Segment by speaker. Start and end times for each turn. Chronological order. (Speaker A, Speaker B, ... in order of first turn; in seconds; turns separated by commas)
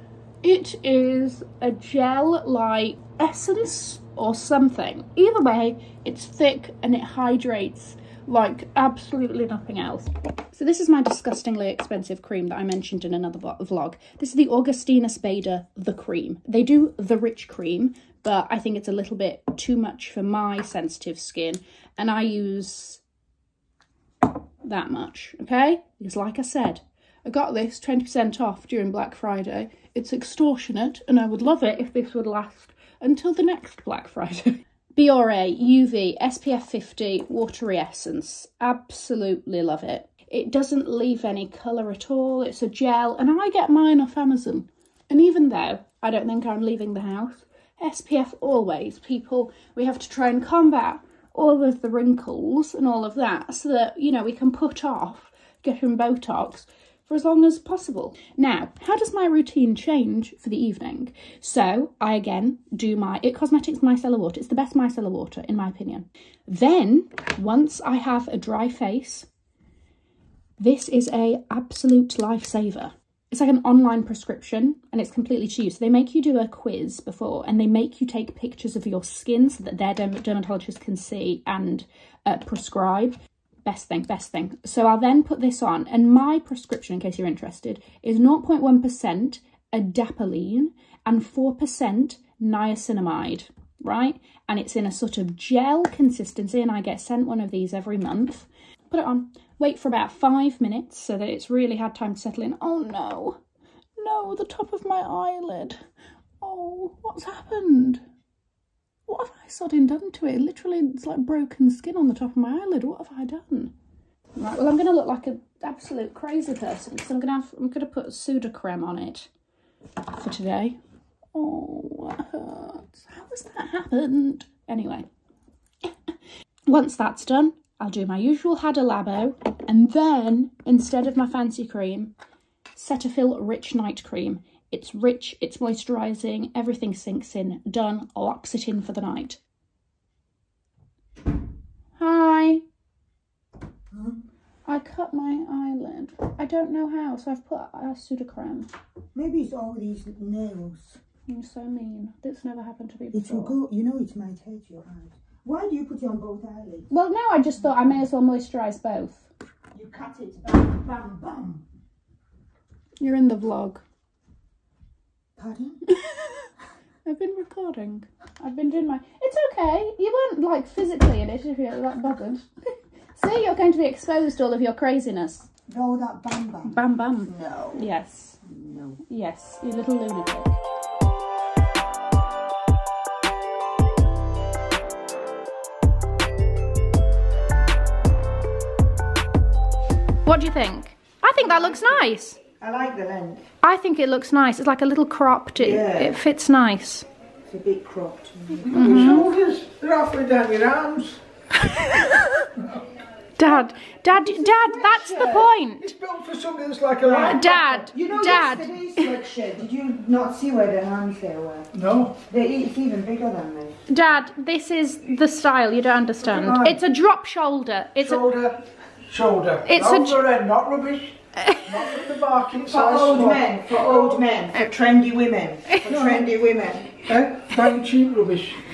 Speaker A: 0.4-23.0, Speaker A: 24.6-69.3, Speaker A: 70.6-103.4, Speaker A: 104.0-105.8, Speaker A: 106.4-108.0, Speaker A: 109.1-113.7, Speaker A: 114.3-119.3, Speaker A: 120.1-120.8, Speaker A: 121.3-125.0, Speaker A: 126.7-132.1, Speaker A: 132.8-139.4, Speaker A: 141.9-142.6, Speaker B: 143.9-144.2, Speaker A: 144.7-148.7, Speaker B: 149.1-151.0, Speaker A: 151.3-153.5, Speaker B: 153.1-156.9, Speaker A: 156.9-159.3, Speaker B: 159.7-161.6, Speaker A: 163.0-163.8, Speaker B: 165.4-165.8, Speaker A: 165.8-166.5, Speaker A: 167.0-172.5, Speaker A: 173.1-175.5, Speaker B: 175.7-177.8, Speaker A: 176.6-178.4, Speaker B: 178.4-179.0, Speaker A: 179.1-180.6, Speaker A: 190.2-192.4, Speaker B: 191.4-192.0, Speaker B: 192.6-193.4, Speaker A: 193.6-197.1, Speaker B: 195.6-196.2, Speaker B: 197.5-199.3, Speaker C: 198.7-201.2, Speaker A: 198.7-199.3, Speaker A: 201.6-202.4, Speaker C: 202.5-202.8, Speaker A: 203.4-205.9, Speaker B: 203.4-205.5, Speaker C: 205.8-207.7, Speaker B: 207.0-211.7, Speaker A: 207.2-209.2, Speaker C: 211.7-212.2, Speaker B: 212.3-213.8, Speaker A: 213.9-218.2, Speaker B: 216.2-216.8, Speaker C: 218.0-224.2, Speaker A: 219.7-220.2, Speaker A: 221.4-221.9, Speaker B: 222.7-227.0, Speaker C: 225.8-226.2, Speaker C: 227.0-228.6